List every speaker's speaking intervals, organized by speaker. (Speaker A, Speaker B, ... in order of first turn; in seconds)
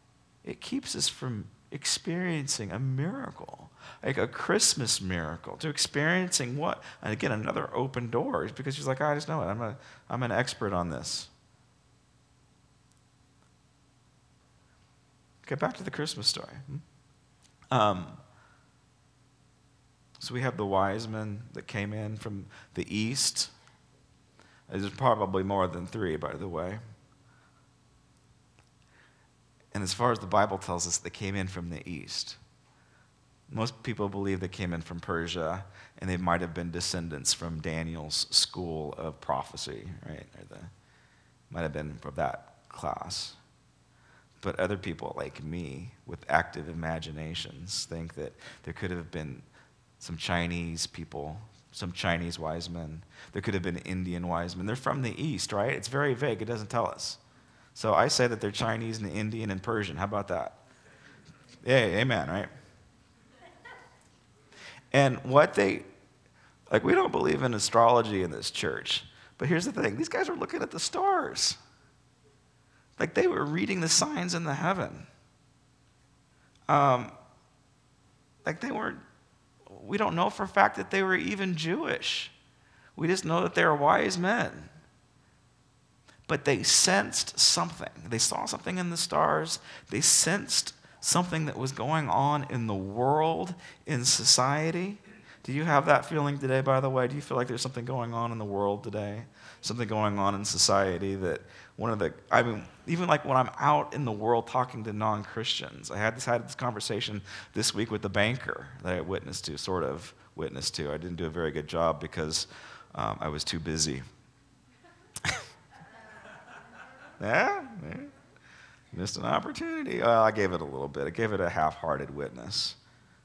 Speaker A: 0.4-11.3, 15.4-16.8, 17.7-18.2, 20.2-23.5, 24.7-26.8, 29.7-32.4, 33.5-40.7, 41.5-43.4, 44.4-49.5, 50.0-57.2, 57.7-60.6, 61.6-62.5, 64.9-65.8, 66.7-71.6, 73.0-75.1, 76.7-77.1, 78.4-79.0, 79.7-82.3, 83.0-84.7, 86.3-114.0, 117.2-118.1, 118.9-122.8